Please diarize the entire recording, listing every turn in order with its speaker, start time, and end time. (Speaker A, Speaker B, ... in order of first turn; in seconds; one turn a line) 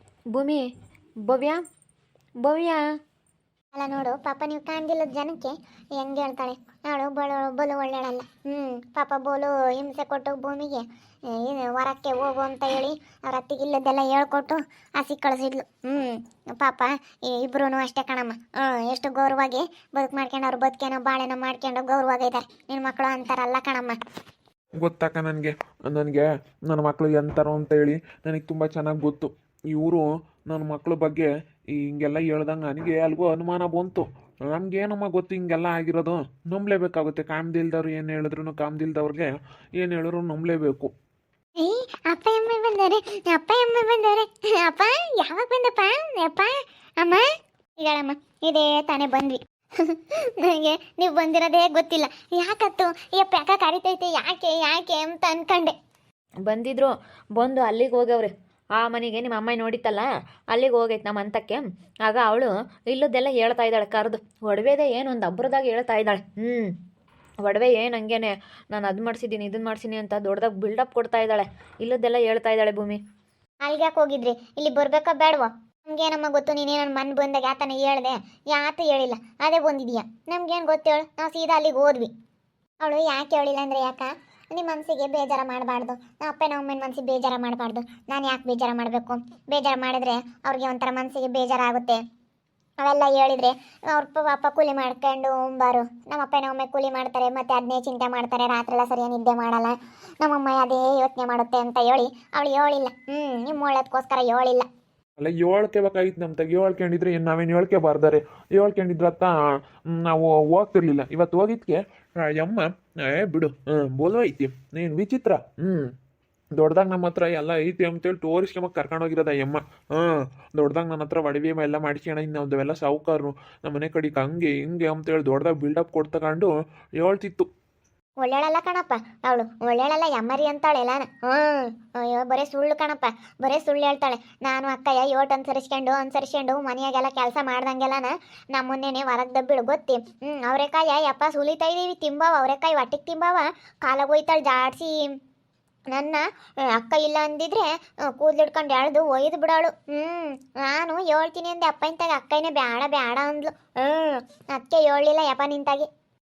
Speaker A: 0.3-0.6
Speaker A: 1.3-1.6
Speaker A: 2.4-2.8
Speaker B: 3.7-24.0
Speaker C: 24.8-40.9
Speaker B: 41.6-47.3
Speaker B: 47.8-55.7
Speaker A: 56.4-66.7
Speaker A: 67.4-73.0
Speaker B: 73.6-82.1
Speaker B: 82.8-92.0
Speaker B: 92.8-104.7
Speaker C: 105.2-109.3
Speaker C: 109.9-115.9
Speaker C: 116.5-127.5
Speaker B: 128.2-145.1
Speaker B: 145.9-155.9